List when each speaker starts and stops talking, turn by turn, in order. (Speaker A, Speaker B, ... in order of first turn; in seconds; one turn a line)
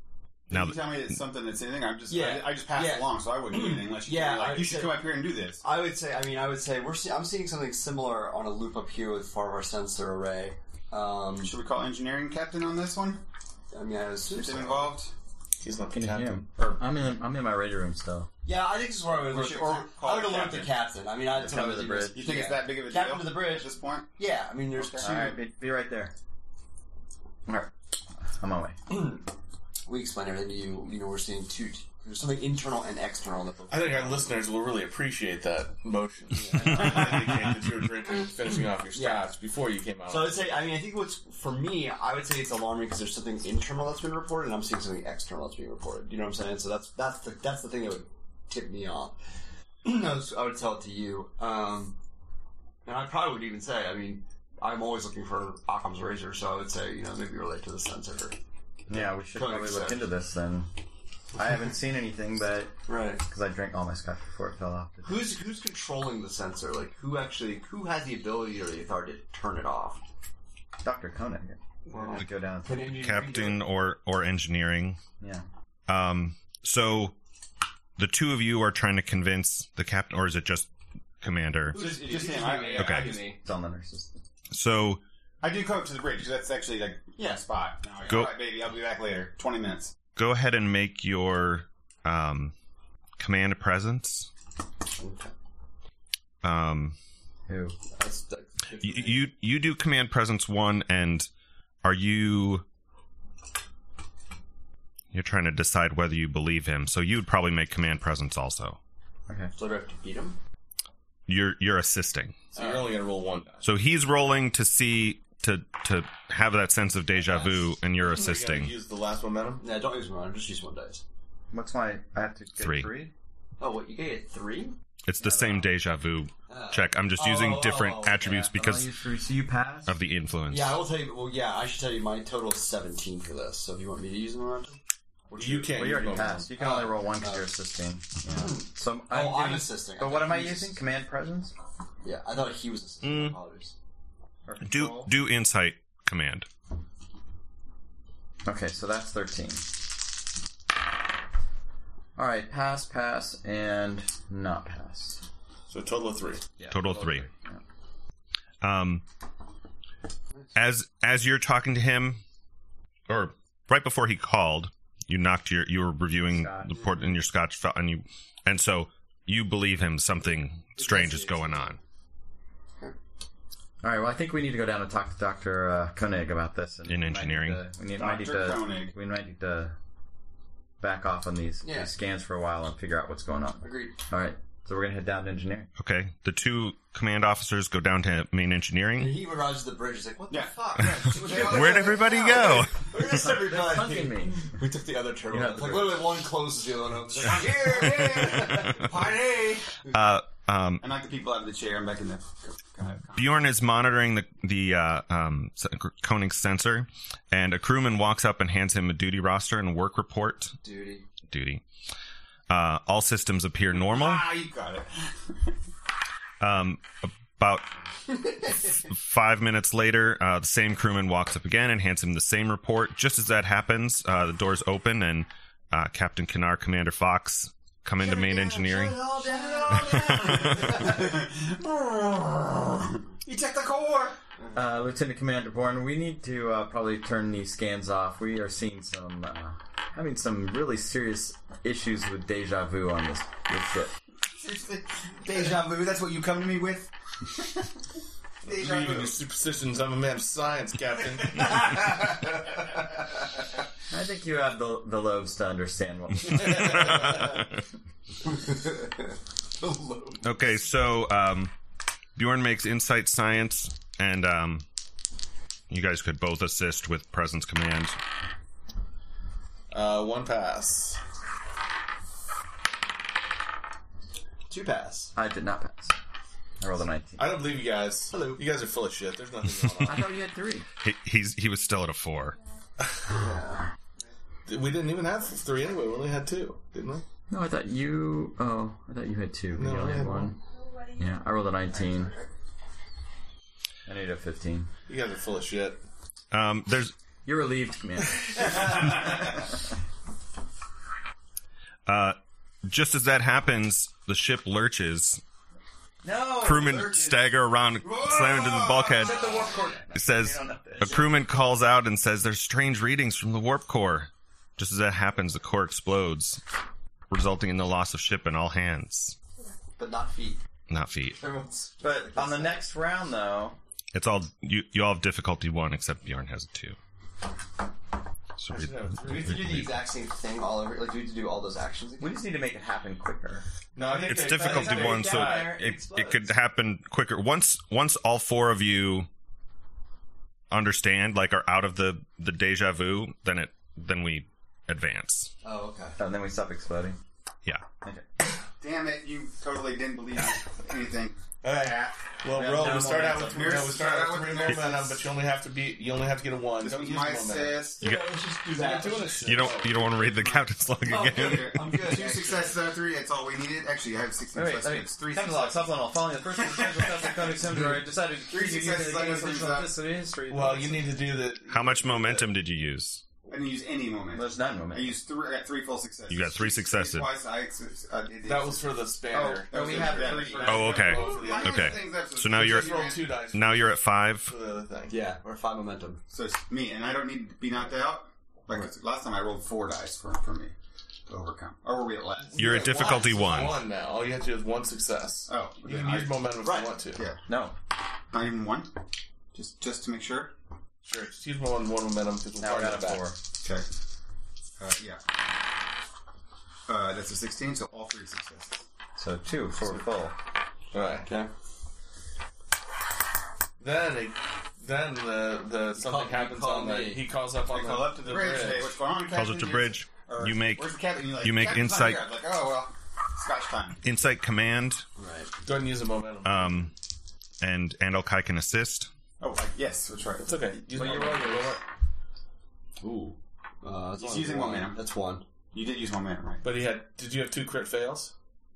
Speaker A: 0.5-1.2
Speaker B: 0.5-5.6
Speaker C: 2.1-5.0
Speaker C: 5.6-11.6
Speaker B: 11.4-13.2
Speaker C: 13.7-14.9
Speaker B: 14.3-15.1
Speaker D: 15.6-16.4
Speaker E: 15.9-18.3
Speaker C: 18.4-25.2
Speaker B: 19.2-20.7
Speaker E: 21.3-22.3
Speaker B: 22.1-24.1
Speaker B: 24.7-25.4
Speaker E: 25.0-26.1
Speaker E: 27.4-28.8
Speaker C: 28.9-29.2
Speaker C: 29.9-34.3
Speaker D: 33.7-40.7
Speaker C: 36.4-37.1
Speaker C: 38.9-39.3
Speaker C: 40.0-49.2
Speaker C: 49.8-52.0
Speaker C: 52.8-58.4
Speaker C: 58.9-60.0
Speaker E: 58.9-60.7
Speaker E: 61.3-65.3
Speaker C: 62.9-63.2
Speaker C: 65.0-70.0
Speaker E: 70.8-72.8
Speaker C: 71.9-73.6
Speaker A: 72.8-75.0
Speaker E: 75.2-75.4
Speaker A: 75.9-77.2
Speaker A: 78.0-80.7
Speaker A: 81.2-81.8
Speaker B: 81.7-83.2
Speaker C: 81.7-83.4
Speaker A: 82.8-83.2
Speaker E: 83.4-84.2
Speaker A: 84.5-85.0
Speaker B: 85.4-89.9
Speaker C: 87.2-87.4
Speaker A: 88.1-88.3
Speaker A: 90.1-92.5
Speaker A: 93.2-94.3
Speaker C: 94.9-95.3
Speaker A: 96.4-97.0
Speaker E: 97.5-97.8
Speaker C: 97.9-99.3
Speaker A: 98.8-101.3
Speaker A: 101.8-102.6
Speaker A: 105.1-108.8
Speaker C: 109.5-110.4
Speaker A: 111.3-112.4
Speaker D: 112.5-113.6
Speaker C: 112.5-112.9
Speaker A: 113.6-118.7
Speaker C: 117.2-117.7
Speaker D: 118.0-119.6
Speaker C: 119.6-121.0
Speaker E: 121.5-123.1
Speaker A: 122.6-122.9
Speaker C: 123.6-124.8
Speaker A: 125.1-128.9
Speaker E: 125.2-125.7
Speaker C: 126.5-128.5
Speaker E: 128.2-129.9
Speaker A: 129.8-130.8
Speaker C: 130.5-137.5
Speaker D: 135.4-136.5
Speaker E: 135.6-141.5
Speaker C: 138.3-140.8
Speaker C: 142.0-143.7
Speaker A: 143.0-143.4
Speaker E: 144.4-145.1
Speaker A: 144.6-146.5
Speaker E: 148.4-149.8
Speaker E: 152.2-155.2
Speaker D: 155.7-156.4
Speaker E: 156.6-157.6
Speaker A: 156.7-157.3
Speaker A: 158.6-159.0
Speaker A: 160.5-162.2
Speaker A: 163.1-171.8
Speaker E: 166.3-167.0
Speaker C: 170.8-171.8
Speaker E: 173.8-179.7
Speaker A: 176.9-177.6
Speaker B: 178.0-178.9
Speaker E: 180.8-185.7
Speaker C: 181.6-181.9
Speaker C: 183.6-184.0
Speaker A: 185.8-189.2
Speaker C: 189.0-199.1
Speaker B: 190.3-192.6
Speaker A: 191.2-192.8
Speaker E: 193.2-194.5
Speaker E: 195.3-196.1
Speaker B: 197.3-199.8
Speaker A: 199.9-200.8
Speaker B: 200.8-203.3
Speaker A: 203.1-210.6
Speaker C: 210.6-211.1
Speaker A: 211.3-211.6
Speaker A: 212.5-214.2
Speaker B: 213.7-215.3
Speaker A: 216.4-217.7
Speaker C: 218.1-218.6
Speaker A: 218.5-229.0
Speaker B: 228.0-234.2
Speaker C: 229.0-231.0
Speaker A: 229.9-230.8
Speaker E: 234.5-243.9
Speaker B: 244.3-247.7
Speaker B: 248.4-249.2
Speaker D: 248.4-251.8
Speaker C: 251.6-253.3
Speaker E: 253.9-257.2
Speaker A: 256.4-257.6
Speaker C: 256.5-257.4
Speaker C: 258.2-260.3
Speaker A: 260.2-261.5
Speaker A: 262.1-264.6
Speaker A: 265.7-268.0
Speaker D: 269.7-271.0
Speaker C: 274.5-275.1
Speaker E: 275.1-276.0
Speaker E: 276.6-277.4
Speaker D: 277.2-280.1
Speaker C: 278.1-278.4
Speaker A: 279.6-280.0
Speaker E: 279.8-280.7
Speaker A: 280.8-282.4
Speaker C: 283.1-283.7
Speaker D: 284.4-287.0
Speaker E: 287.3-292.1
Speaker D: 289.5-290.3
Speaker E: 293.9-294.7
Speaker D: 294.9-295.8
Speaker A: 296.3-296.9
Speaker E: 297.2-299.7
Speaker C: 298.4-299.1
Speaker A: 301.9-305.2
Speaker E: 306.0-307.2
Speaker A: 306.4-309.3
Speaker E: 307.8-311.0
Speaker C: 309.0-309.6
Speaker A: 309.9-316.4
Speaker C: 310.9-311.1
Speaker A: 317.1-319.1
Speaker C: 319.6-320.4
Speaker A: 320.7-321.2
Speaker C: 321.2-322.6
Speaker E: 321.8-323.6
Speaker A: 323.9-326.8
Speaker A: 328.4-329.8
Speaker D: 328.5-329.5
Speaker C: 329.0-332.2
Speaker E: 332.0-333.4
Speaker D: 333.7-335.6
Speaker C: 333.9-336.3
Speaker A: 334.0-339.1
Speaker E: 334.5-335.6
Speaker A: 340.5-345.3
Speaker C: 345.4-346.0
Speaker E: 346.0-347.0
Speaker B: 348.6-351.2
Speaker D: 351.4-357.8
Speaker E: 352.3-353.8
Speaker B: 353.3-355.0
Speaker B: 356.6-357.8
Speaker C: 357.8-359.5
Speaker A: 357.8-358.1
Speaker D: 358.4-359.9
Speaker A: 359.2-361.8
Speaker B: 359.7-369.8
Speaker C: 360.9-362.6
Speaker E: 364.3-371.0
Speaker D: 370.3-372.3
Speaker A: 371.5-373.0
Speaker B: 373.3-378.7
Speaker E: 374.1-374.9
Speaker A: 376.1-377.1
Speaker D: 378.2-385.0
Speaker E: 379.1-380.9
Speaker B: 379.5-383.1
Speaker A: 380.5-384.3
Speaker C: 384.9-386.0
Speaker B: 386.1-390.5
Speaker B: 391.1-392.8
Speaker D: 392.2-397.0
Speaker A: 392.4-393.6
Speaker C: 392.5-393.2
Speaker B: 395.3-397.2
Speaker C: 396.4-396.7
Speaker E: 397.2-397.5
Speaker B: 398.1-398.7
Speaker B: 399.3-400.3
Speaker D: 400.8-403.0
Speaker E: 402.4-403.2
Speaker B: 404.6-405.0
Speaker B: 406.7-408.6
Speaker E: 408.9-410.1
Speaker D: 410.7-411.1
Speaker C: 411.0-411.3
Speaker D: 413.6-418.8
Speaker C: 415.7-417.1
Speaker B: 417.5-423.8
Speaker A: 419.1-422.0
Speaker A: 423.8-424.8
Speaker C: 425.0-425.3
Speaker D: 425.4-426.7
Speaker A: 426.2-426.7
Speaker A: 427.4-428.9
Speaker B: 429.2-431.0
Speaker D: 430.2-431.6
Speaker E: 430.7-431.6
Speaker C: 432.8-435.2
Speaker B: 434.0-434.8
Speaker B: 435.5-436.4
Speaker D: 436.4-438.1